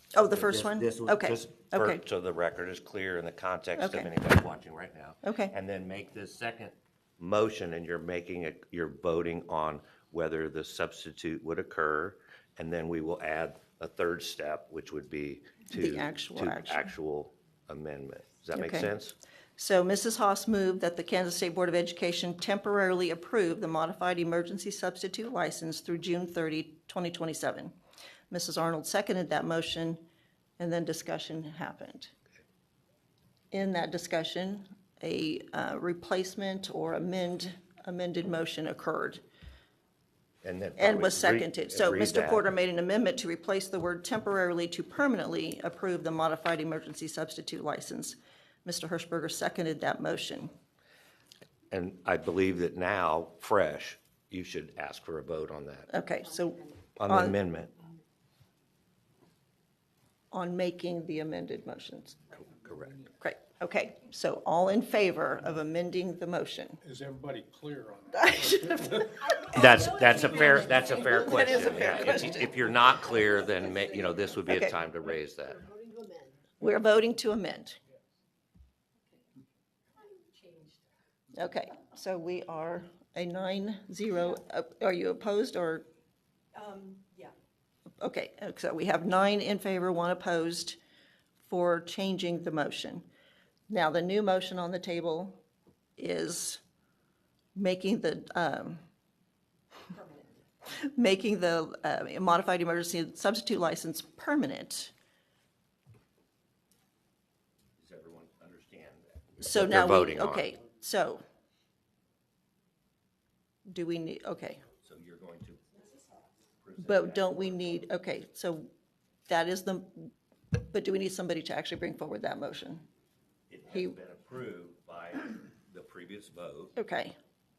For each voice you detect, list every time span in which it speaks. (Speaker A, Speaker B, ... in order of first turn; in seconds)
Speaker A: 0.1-2.0, 3.8-4.1, 5.2-5.5, 15.7-16.9, 18.5-18.9, 19.6-27.7, 28.3-30.0, 30.6-32.1, 33.5-39.2, 40.8-50.5, 55.9-57.4, 60.3-62.4, 63.2-66.8, 68.2-69.6, 70.3-72.5, 76.6-77.8, 81.3-85.9, 88.0-90.8, 91.5-93.0, 93.7-95.4, 96.0-96.6, 97.5-98.8, 100.8-104.9, 109.4-111.2, 113.7-114.6, 116.8-118.7, 119.3-122.8, 126.8-127.2
Speaker B: 0.2-19.1, 40.4-42.4, 51.7-55.9, 57.0-57.8, 62.5-63.1, 69.5-75.6, 107.8-110.5, 114.8-115.8, 116.6-117.8, 123.5-126.7
Speaker C: 56.4-56.8, 69.2-72.3, 75.4-76.6, 79.9-80.8, 86.5-87.3, 99.9-100.3
Speaker D: 66.8-69.4